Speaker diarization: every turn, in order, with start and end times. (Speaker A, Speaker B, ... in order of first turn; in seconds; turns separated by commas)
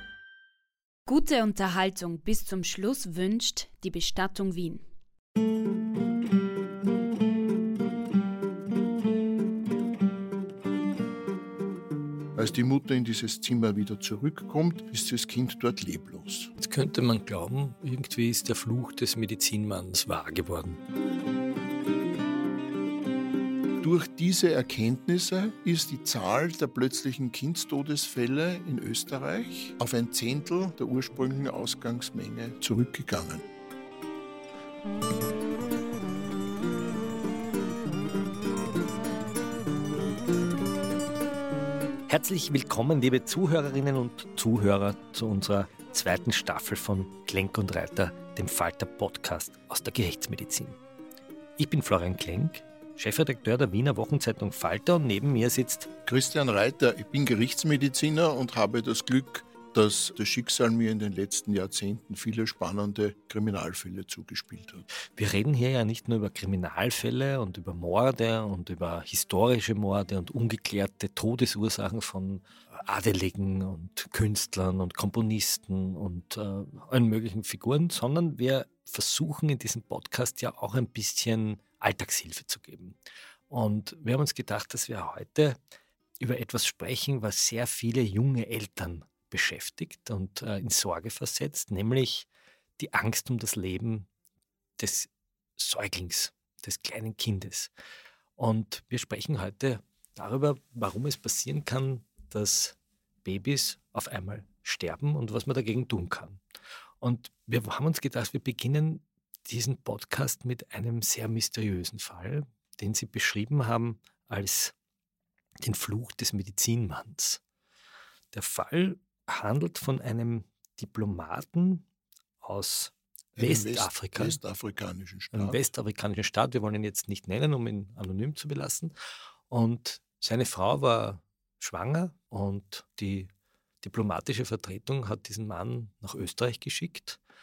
Speaker A: 1.1-4.9, Speaker B: 12.4-16.5, Speaker C: 16.6-20.8, Speaker B: 23.8-33.5, Speaker C: 42.1-50.8, Speaker C: 51.6-55.9, Speaker B: 56.1-64.8, Speaker C: 65.2-83.0, Speaker C: 83.5-85.6, Speaker C: 86.2-94.1, Speaker C: 94.8-97.7, Speaker C: 98.4-106.4, Speaker C: 107.0-114.7, Speaker C: 115.6-117.4, Speaker C: 118.3-121.8, Speaker C: 122.4-124.4, Speaker B: 123.3-125.6, Speaker C: 125.3-128.9, Speaker C: 129.5-133.3, Speaker C: 133.8-137.2